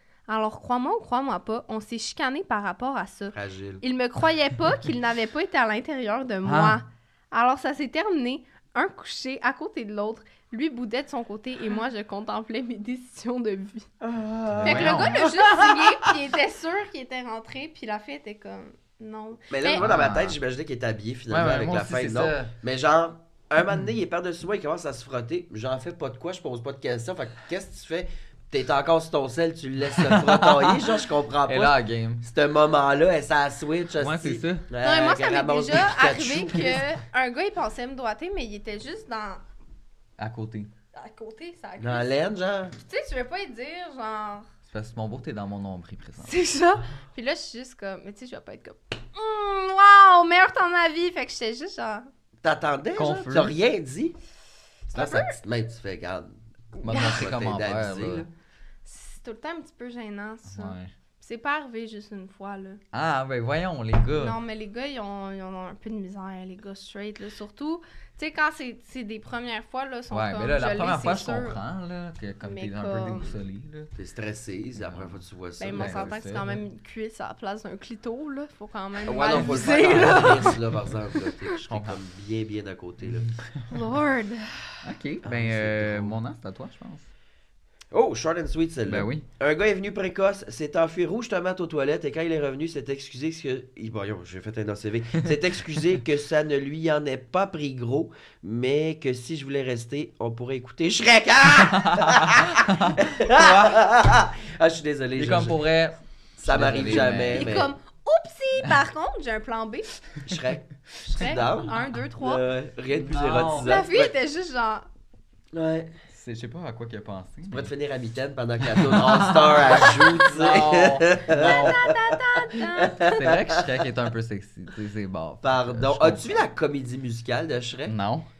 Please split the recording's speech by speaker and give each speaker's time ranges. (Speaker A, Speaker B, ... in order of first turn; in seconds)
Speaker A: 0.3-13.9, 14.6-19.9, 34.8-39.4, 40.9-42.1, 42.9-44.5, 46.2-52.1, 54.9-55.4, 56.8-57.2, 58.8-62.8, 64.1-71.6, 72.4-73.3, 75.6-80.6, 83.7-84.7, 107.3-109.9, 111.0-112.4, 113.6-114.8, 121.7-123.2
Speaker B: 3.3-3.8, 14.0-15.9, 19.5-36.8, 41.8-42.7, 52.4-54.1, 54.9-58.3, 74.0-76.2, 79.0-83.3, 85.2-86.2, 87.9-105.6, 106.4-107.7, 110.2-114.1, 115.5-115.9, 117.5-122.0, 122.5-123.6, 125.4-127.9
Speaker C: 6.4-6.8, 14.5-15.2, 19.8-20.4, 21.3-22.5, 29.9-32.2, 34.0-34.7, 40.2-40.7, 44.7-46.4, 52.9-53.5, 56.8-58.2, 60.5-60.9, 62.9-64.4, 70.1-73.9, 74.8-75.2, 75.7-76.6, 79.3-80.6, 81.7-82.0, 83.1-83.6, 84.8-87.1, 88.9-89.2, 101.8-103.8, 105.2-107.6, 112.9-113.7, 116.1-117.7, 118.6-121.8, 123.1-126.5, 127.9-128.3